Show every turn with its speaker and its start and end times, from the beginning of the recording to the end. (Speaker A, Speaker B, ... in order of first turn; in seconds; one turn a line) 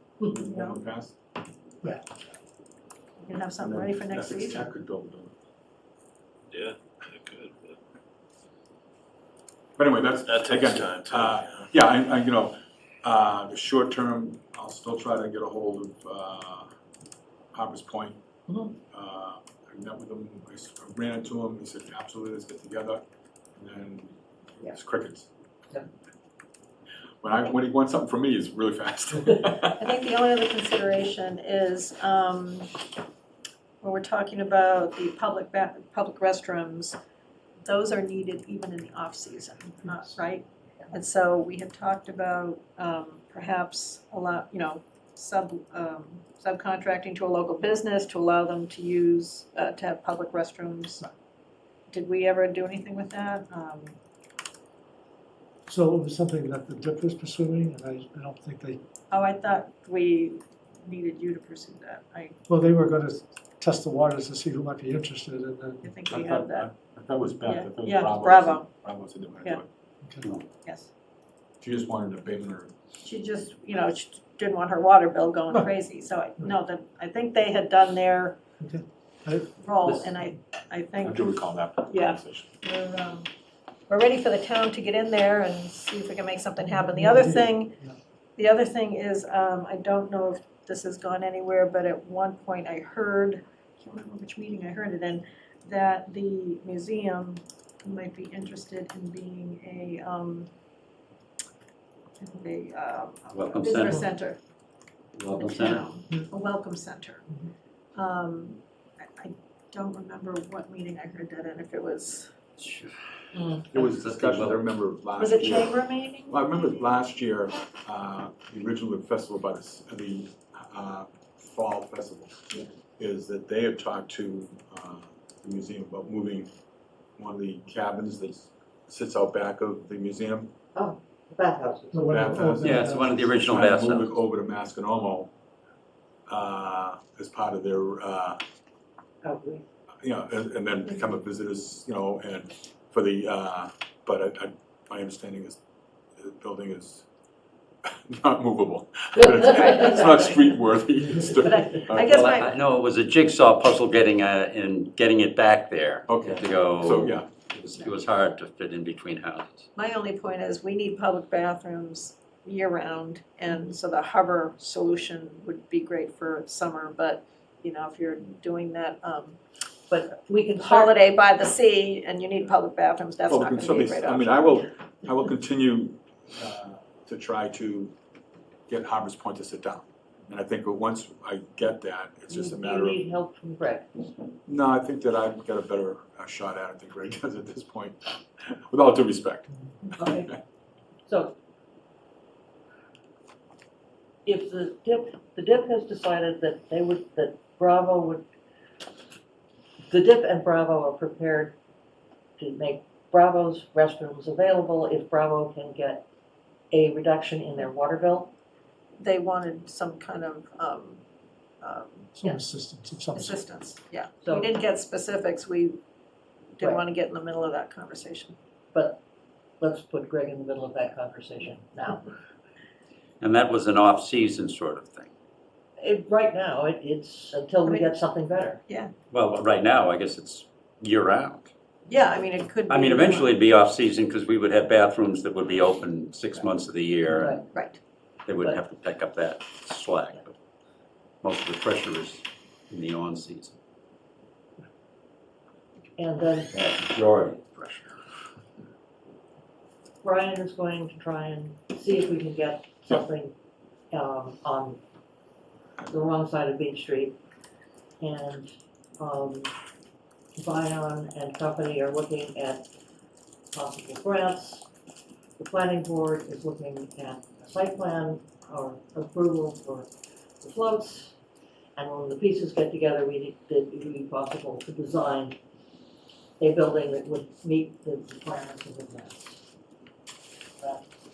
Speaker A: 0.2-1.1
Speaker B: 0.4-0.8
Speaker B: 3.2-4.7
Speaker A: 3.6-5.3
Speaker C: 6.5-7.8
Speaker A: 9.8-16.7
Speaker C: 10.2-11.7
Speaker A: 17.5-18.2
Speaker A: 18.9-23.0
Speaker A: 23.6-25.3
Speaker A: 27.2-29.8
Speaker B: 29.7-32.7
Speaker B: 33.8-37.0
Speaker B: 37.6-51.0
Speaker B: 51.9-54.0
Speaker D: 55.7-58.8
Speaker B: 59.1-62.4
Speaker D: 62.5-65.9
Speaker B: 65.8-66.7
Speaker A: 66.1-69.7
Speaker B: 67.4-68.7
Speaker B: 70.6-70.9
Speaker A: 71.6-72.7
Speaker B: 73.0-78.4
Speaker D: 78.6-79.5
Speaker B: 79.6-81.3
Speaker A: 81.0-82.5
Speaker B: 81.9-83.3
Speaker B: 83.9-87.7
Speaker D: 86.6-88.0
Speaker B: 88.4-100.5
Speaker B: 102.2-104.4
Speaker E: 103.3-104.0
Speaker E: 105.2-105.8
Speaker B: 105.4-107.2
Speaker B: 107.9-112.3
Speaker E: 112.6-112.9
Speaker F: 113.3-113.7
Speaker A: 113.7-122.3
Speaker E: 113.7-114.6
Speaker B: 115.2-116.3
Speaker A: 123.0-126.5
Speaker A: 127.2-130.5
Speaker F: 130.7-132.1
Speaker D: 131.9-133.2
Speaker A: 132.1-135.3
Speaker E: 132.6-134.2
Speaker A: 136.3-138.4
Speaker F: 139.2-139.6
Speaker A: 140.0-145.6
Speaker A: 146.2-147.1
Speaker A: 147.8-152.3
Speaker B: 151.4-152.6
Speaker E: 152.0-159.7
Speaker A: 156.1-157.3
Speaker B: 159.7-169.4
Speaker F: 169.9-170.9
Speaker B: 170.6-174.5
Speaker A: 173.3-177.9
Speaker A: 178.7-183.0
Speaker F: 182.3-184.1
Speaker A: 184.5-189.5
Speaker F: 189.9-190.4
Speaker F: 191.1-191.3
Speaker F: 194.2-198.2
Speaker F: 199.9-201.6
Speaker F: 202.4-206.1
Speaker F: 206.7-208.3
Speaker B: 209.0-211.0
Speaker B: 211.6-212.4
Speaker D: 212.1-213.4
Speaker B: 213.1-215.8
Speaker F: 214.2-214.5
Speaker B: 216.5-218.3
Speaker F: 216.6-216.8
Speaker F: 218.7-219.0
Speaker F: 219.6-222.1
Speaker E: 223.2-225.1
Speaker F: 225.8-228.6
Speaker B: 227.6-228.0
Speaker B: 228.7-228.9
Speaker E: 229.1-231.5
Speaker B: 231.9-233.4
Speaker E: 232.7-237.5
Speaker F: 237.1-237.4
Speaker B: 237.5-237.8
Speaker E: 238.2-240.3
Speaker E: 241.2-243.5
Speaker F: 246.0-246.5
Speaker E: 246.5-247.8
Speaker F: 250.0-253.3
Speaker F: 253.9-254.8
Speaker F: 255.9-257.2
Speaker F: 258.0-259.5
Speaker F: 260.3-262.7
Speaker F: 263.5-264.7
Speaker F: 265.4-269.9
Speaker F: 270.4-271.1
Speaker F: 271.8-275.4
Speaker F: 276.4-279.4